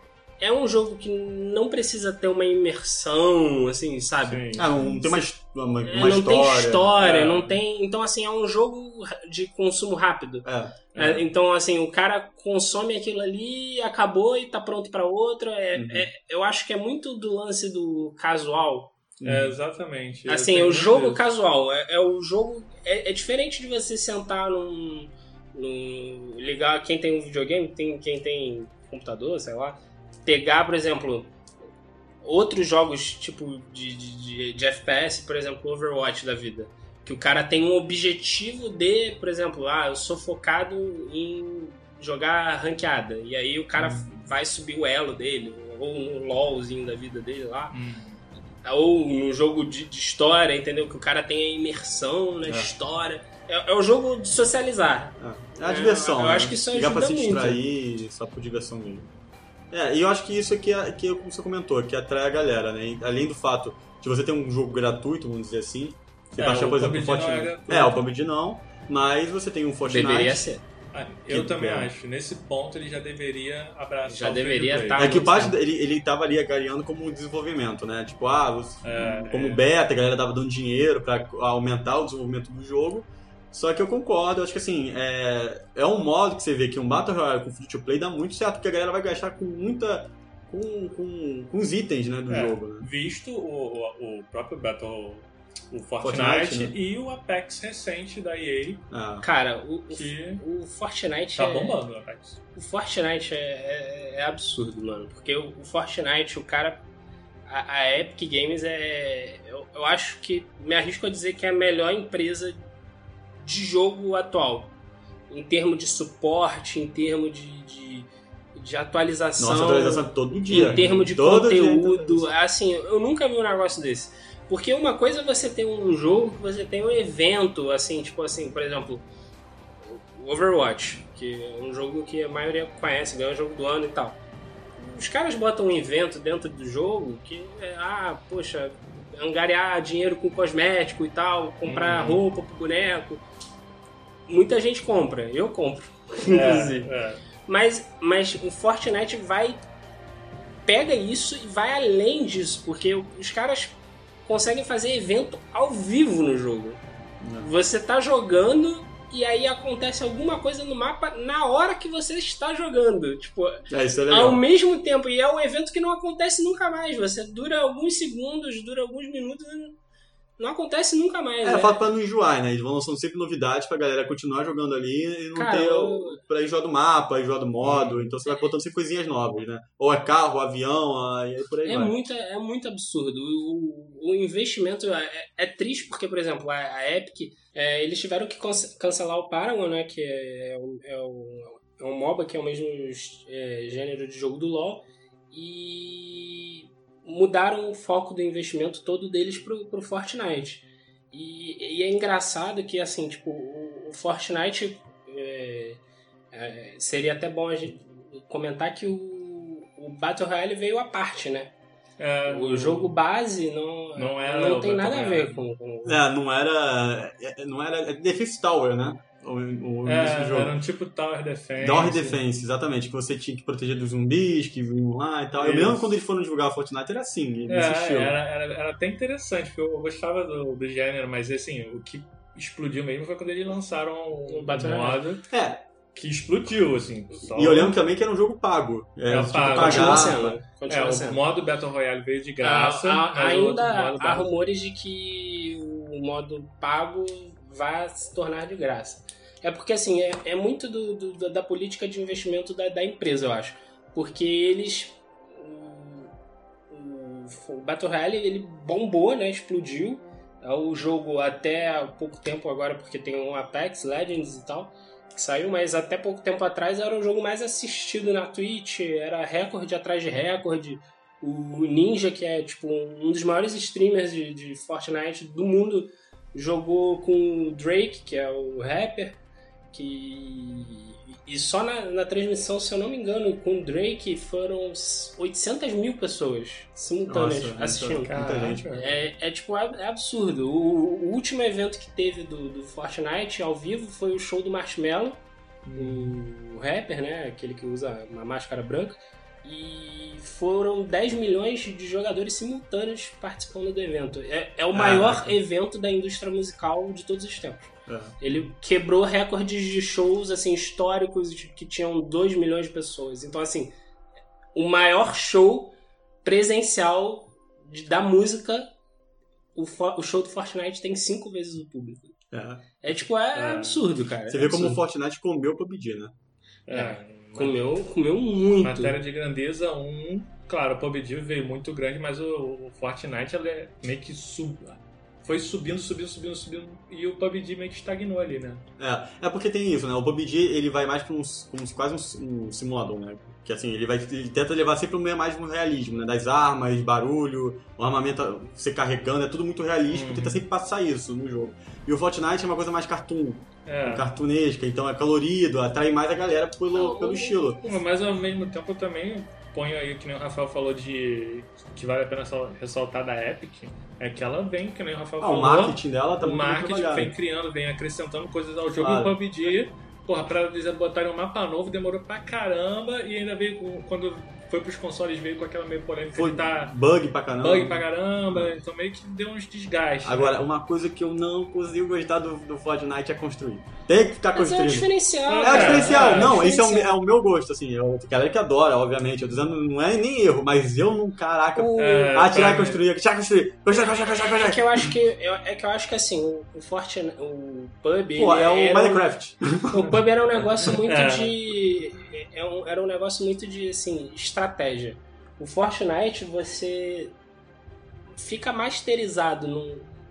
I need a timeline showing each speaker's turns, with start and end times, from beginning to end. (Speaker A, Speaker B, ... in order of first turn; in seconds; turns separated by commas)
Speaker A: 0.4-5.2, Speaker B: 4.2-4.8, Speaker C: 4.6-7.0, Speaker A: 5.8-19.0, Speaker B: 7.0-7.6, Speaker C: 10.4-11.0, Speaker B: 10.9-11.2, Speaker C: 15.7-16.1, Speaker C: 19.2-19.6, Speaker B: 19.2-21.2, Speaker A: 20.3-31.3, Speaker A: 32.2-47.8, Speaker B: 43.8-44.2, Speaker B: 47.7-48.2, Speaker A: 48.6-57.6, Speaker C: 52.5-52.7, Speaker C: 55.2-59.1, Speaker C: 59.7-70.5, Speaker B: 66.4-68.0, Speaker A: 69.9-70.6, Speaker B: 70.9-75.3, Speaker C: 71.3-71.9, Speaker A: 74.1-75.6, Speaker C: 75.0-92.9, Speaker B: 78.8-79.7, Speaker B: 92.3-98.9, Speaker C: 96.0-96.7, Speaker C: 98.9-99.2, Speaker A: 99.2-101.8, Speaker B: 99.9-100.4, Speaker B: 101.4-102.4, Speaker A: 102.5-106.8, Speaker A: 107.5-112.6, Speaker A: 113.4-114.8, Speaker A: 115.3-129.1, Speaker C: 119.4-122.3, Speaker B: 120.5-121.0, Speaker A: 129.9-134.2, Speaker A: 134.8-143.2, Speaker B: 141.7-142.2, Speaker A: 144.3-146.9, Speaker B: 146.3-147.2, Speaker A: 147.4-149.7, Speaker A: 150.7-156.8, Speaker C: 157.2-157.5, Speaker A: 157.4-169.8, Speaker C: 163.7-164.4, Speaker A: 170.4-171.8, Speaker C: 171.4-182.0, Speaker A: 175.3-176.2, Speaker B: 177.6-178.1, Speaker A: 181.7-205.8, Speaker A: 206.3-211.5, Speaker B: 212.0-213.0, Speaker A: 212.3-216.0, Speaker B: 213.9-215.5, Speaker C: 215.8-220.5, Speaker B: 219.8-222.2, Speaker C: 221.6-228.2, Speaker B: 225.4-225.9, Speaker B: 227.5-235.3, Speaker A: 234.3-235.0, Speaker C: 235.3-235.6, Speaker B: 235.9-237.8, Speaker C: 237.3-240.4, Speaker B: 239.1-244.3, Speaker A: 239.5-241.2, Speaker A: 242.4-256.1, Speaker A: 256.7-279.2, Speaker A: 279.7-295.2, Speaker C: 287.1-288.7, Speaker B: 288.1-289.0, Speaker B: 295.6-296.2, Speaker A: 295.7-313.7, Speaker C: 304.7-305.4, Speaker C: 307.9-308.1, Speaker A: 314.6-318.7, Speaker A: 319.6-322.1, Speaker C: 322.3-322.7, Speaker A: 322.8-324.8, Speaker B: 323.3-323.9, Speaker C: 324.3-326.1, Speaker B: 326.7-327.8, Speaker A: 326.7-329.0, Speaker B: 328.6-338.6, Speaker C: 338.8-357.6, Speaker B: 349.9-350.4, Speaker B: 353.7-354.1, Speaker A: 356.7-357.8, Speaker B: 357.6-376.7, Speaker C: 365.2-367.1, Speaker C: 368.8-369.1, Speaker C: 376.1-378.6, Speaker B: 377.4-380.5, Speaker C: 380.0-384.9, Speaker A: 384.3-386.9, Speaker B: 385.3-386.4, Speaker C: 385.4-394.9, Speaker A: 391.6-392.2, Speaker B: 391.8-392.8, Speaker A: 393.7-399.1, Speaker C: 398.2-399.9, Speaker A: 399.7-407.2, Speaker B: 400.6-401.5, Speaker A: 408.1-409.9